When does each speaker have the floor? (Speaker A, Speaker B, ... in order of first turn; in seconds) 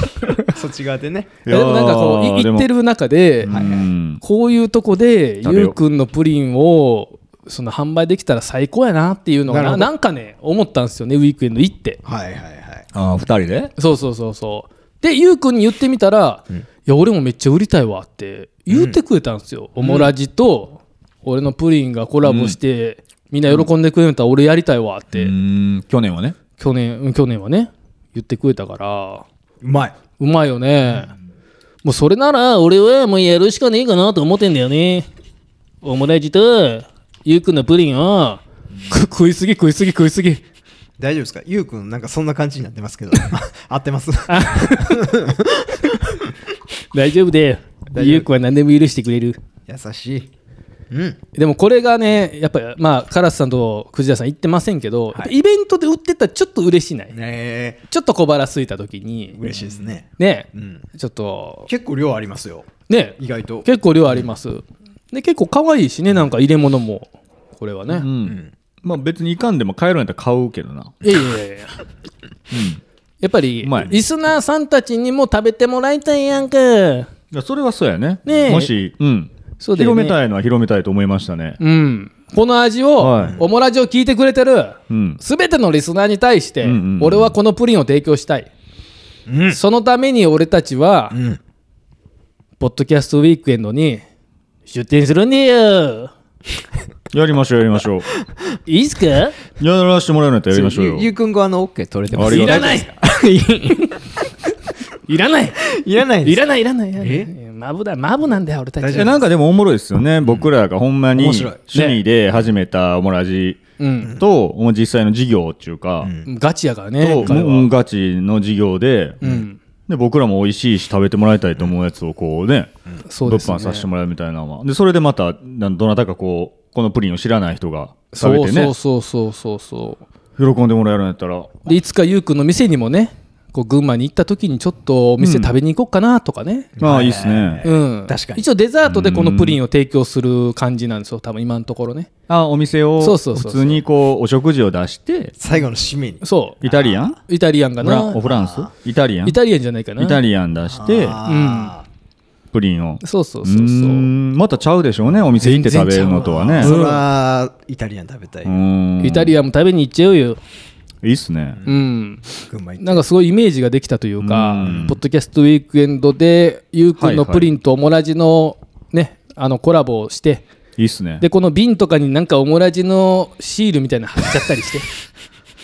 Speaker A: 0.2-0.5, 1.5-3.7, 4.2-12.0, 13.8-25.3, 26.6-29.3, 30.2-31.1, 31.8-35.1, 35.8-40.4, 44.3-45.1, 46.9-49.4, 51.3-57.1, 57.9-59.4, 60.2-61.7, 62.9-68.1, 71.0-71.8, 73.2-77.1, 78.3-78.7, 79.6-80.2, 81.6-88.5, 89.5-91.2, 92.6-94.0, 94.7-96.1, 98.7-99.4, 102.2-102.9, 105.0-105.7, 106.2-109.2, 111.7-112.0, 113.8-114.1, 116.2-117.7, 119.2-119.6, 123.1-123.9, 128.1-130.1, 131.7-136.7, 137.6-142.1, 143.0-143.8, 146.2-146.6, 147.3-148.2, 149.2-150.2, 151.3-151.7, 153.0-154.1, 155.4-157.1, 159.0-160.4, 161.6-170.4, 171.2-174.9
Speaker B: 0.5-1.4, 3.5-3.9, 9.5-9.9, 12.1-12.9, 18.7-19.0, 19.8-20.1, 29.6-30.0, 41.0-46.0, 47.9-48.3, 49.7-50.3, 50.9-51.2, 57.1-57.8, 59.3-60.8, 61.7-63.7, 68.2-68.5, 83.2-83.5, 89.3-89.6, 91.1-91.4, 100.5-104.1, 105.6-106.5, 107.0-107.3, 108.8-109.2, 110.2-110.5, 111.2-111.6, 116.0-116.3, 136.8-138.4, 145.4-147.1, 148.2-148.7, 150.8-151.9, 156.2-158.6, 162.5-163.0, 164.6-164.9
Speaker C: 1.4-2.7, 3.4-4.2, 5.4-5.8, 12.9-13.7, 22.2-22.6, 25.1-26.4, 67.9-71.0, 72.5-72.8, 73.6-74.0, 77.3-81.6, 83.0-83.4, 84.9-85.2, 86.6-87.3, 97.1-98.1, 99.6-101.1, 102.1-102.8, 108.9-113.6, 114.1-116.1, 117.0-119.2, 119.9-128.7, 130.4-131.7, 135.2-135.5, 136.8-137.7, 138.9-139.6, 142.3-145.3, 146.6-147.2, 147.8-149.4, 150.0-151.2, 152.5-156.8, 158.4-159.3, 161.0-161.6, 164.2-165.0, 167.0-167.5, 170.8-171.2